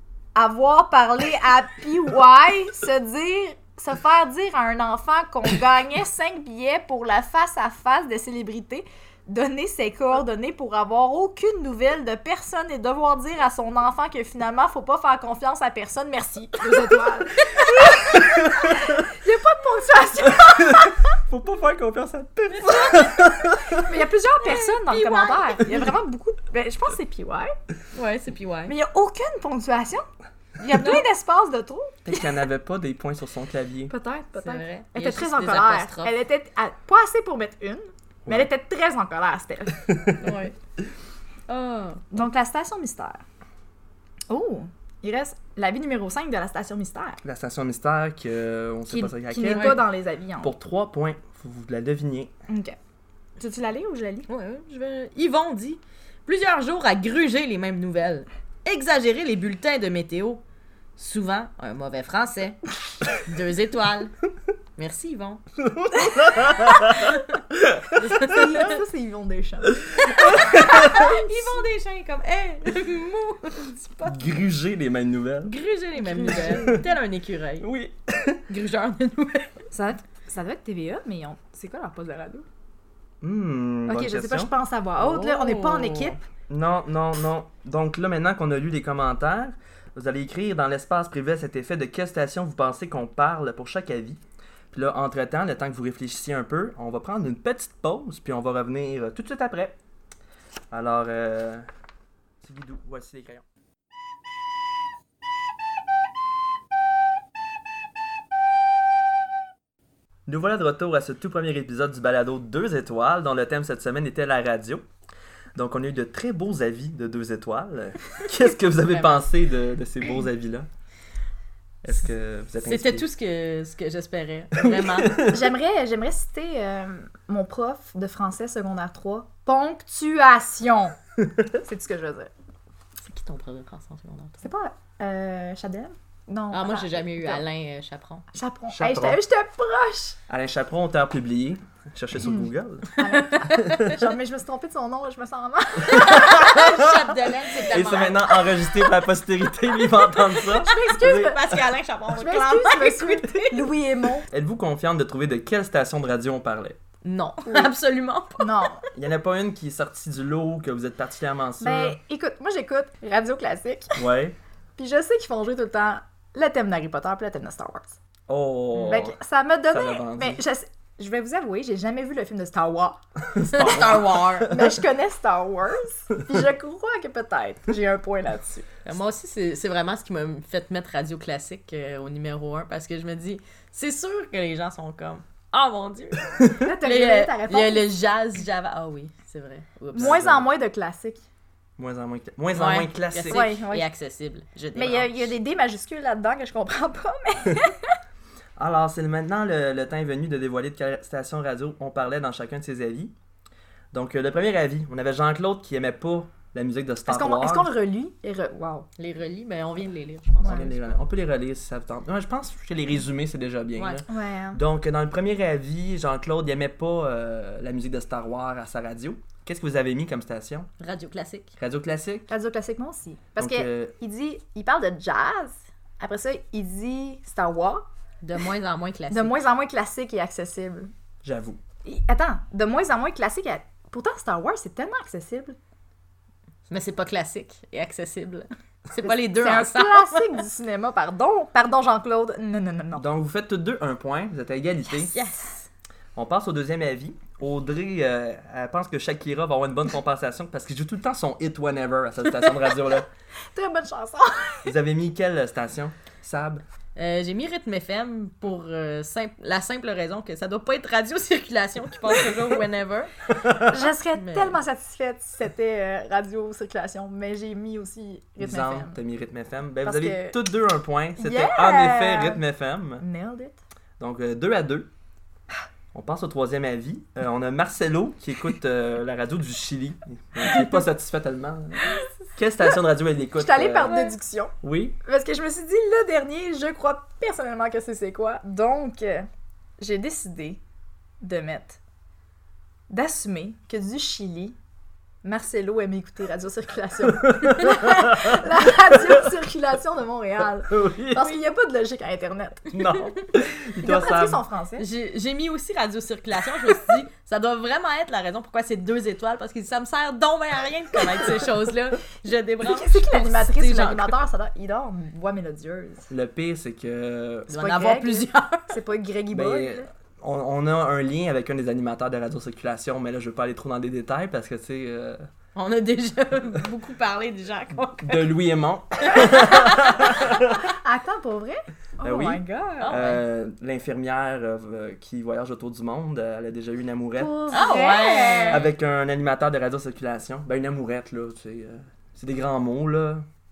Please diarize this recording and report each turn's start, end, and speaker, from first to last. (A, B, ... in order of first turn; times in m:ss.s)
0:00.3-0:21.0 A
0:18.2-0:19.0 B
0:20.2-0:23.9 B
0:22.5-0:23.1 C
0:23.8-0:27.5 A
0:24.4-0:25.6 C
0:27.9-0:28.7 C
0:28.7-0:30.0 A
0:30.6-0:32.2 A
0:30.7-0:31.0 C
0:32.0-0:33.9 B
0:33.9-0:39.9 A
0:34.4-0:36.1 C
0:39.9-0:40.2 B
0:40.2-0:40.6 C
0:41.5-0:42.0 C
0:42.1-0:43.2 A
0:44.3-0:47.2 A
0:47.2-0:49.8 B
0:48.9-0:50.5 A
0:49.5-0:49.8 C
0:50.4-0:52.3 B
0:52.5-0:52.8 A
0:53.4-0:54.3 A
0:54.3-1:00.4 C
1:01.0-1:04.1 C
1:04.8-1:05.4 C
1:05.6-1:08.4 B
1:06.8-1:07.2 C
1:07.9-1:08.8 C
1:08.2-1:11.6 A
1:09.8-1:11.1 B
1:10.1-1:14.2 C
1:14.0-1:15.5 B
1:15.4-1:17.7 C
1:16.0-1:16.8 A
1:16.3-1:16.8 B
1:17.6-1:18.4 B
1:18.5-1:19.5 C
1:19.7-1:22.4 A
1:23.2-1:24.5 B
1:23.9-1:26.2 A
1:25.0-1:26.2 C
1:26.5-1:34.2 B
1:34.7-1:39.8 B
1:40.7-1:41.6 B
1:42.4-1:43.4 B
1:50.2-1:54.8 B
1:55.5-2:00.7 B
1:58.9-1:59.2 C
2:01.8-2:03.1 B
2:02.6-2:05.3 C
2:04.6-2:05.5 B
2:05.1-2:11.0 A
2:11.5-2:12.3 A
2:13.0-2:14.5 C
2:14.4-2:17.4 A
2:16.5-2:18.2 C
2:18.3-2:20.2 A
2:18.7-2:19.2 B
2:20.3-2:24.0 B
2:23.0-2:26.6 A
2:23.1-2:23.9 C
2:25.8-2:28.3 C
2:25.8-2:31.4 B
2:30.5-2:31.4 A
2:30.6-2:33.7 C
2:32.1-2:34.3 A
2:34.3-2:36.8 B
2:37.0-2:38.6 C
2:38.4-2:38.8 A
2:38.9-2:42.0 B
2:41.6-2:44.0 A
2:44.0-2:44.4 B
2:44.8-2:48.0 A
2:48.3-2:49.2 B
2:48.7-2:49.0 C
2:48.8-2:53.0 A
2:49.7-2:50.4 B
2:53.3-2:54.7 B
2:53.4-2:54.6 C
2:54.4-2:58.6 A
2:58.8-3:10.4 C
3:06.6-3:07.9 A
3:09.9-3:11.2 A
3:10.0-3:10.4 B
3:11.8-3:13.5 B
3:12.5-3:15.3 C
3:13.3-3:13.9 A
3:14.7-3:18.0 A
3:18.6-3:23.1 B
3:23.9-3:27.7 B
3:27.1-3:28.9 A
3:29.0-3:31.0 C
3:30.4-3:40.7 B
3:33.8-3:34.0 C
3:34.1-3:34.6 A
3:40.8-3:41.5 C
3:41.6-3:42.3 B
3:42.3-3:47.8 A
3:43.4-3:43.9 B
3:48.2-3:49.4 C
3:49.1-3:50.9 A
3:51.2-3:51.6 B
3:51.8-3:55.6 A
3:56.7-4:00.4 C
3:59.0-4:03.0 A
4:02.9-4:05.1 B
4:04.9-4:05.7 C
4:06.1-4:13.1 B
4:13.5-4:14.7 A
4:14.6-4:16.6 B
4:17.0-4:23.1 C
4:23.4-4:23.7 B
4:23.6-4:29.0 A
4:24.1-4:24.6 C
4:28.4-4:33.0 B
4:29.8-4:30.4 A
4:31.2-4:32.4 A
4:33.0-4:33.6 A
4:34.0-4:34.9 B
4:35.9-4:44.0 B
4:43.3-4:49.3 A
4:44.6-4:45.0 B
4:49.8-4:50.6 A
4:51.2-4:51.8 A
4:52.9-4:54.6 A
4:55.2-5:02.8 A
4:57.1-4:59.2 B
5:00.7-5:01.4 B
5:02.7-5:04.4 B
5:03.8-5:04.8 A
5:04.8-5:14.2 C
5:12.6-5:16.1 A
5:16.1-5:17.5 B
5:17.5-5:18.8 C
5:17.5-5:19.9 A
5:19.3-5:25.2 B
5:25.5-5:28.3 C
5:27.8-5:30.6 B
5:29.1-5:30.3 C
5:30.2-5:33.0 A
5:32.0-5:37.7 B
5:32.8-5:33.2 C
5:37.2-5:38.7 A
5:37.5-5:38.7 C
5:38.5-5:43.2 B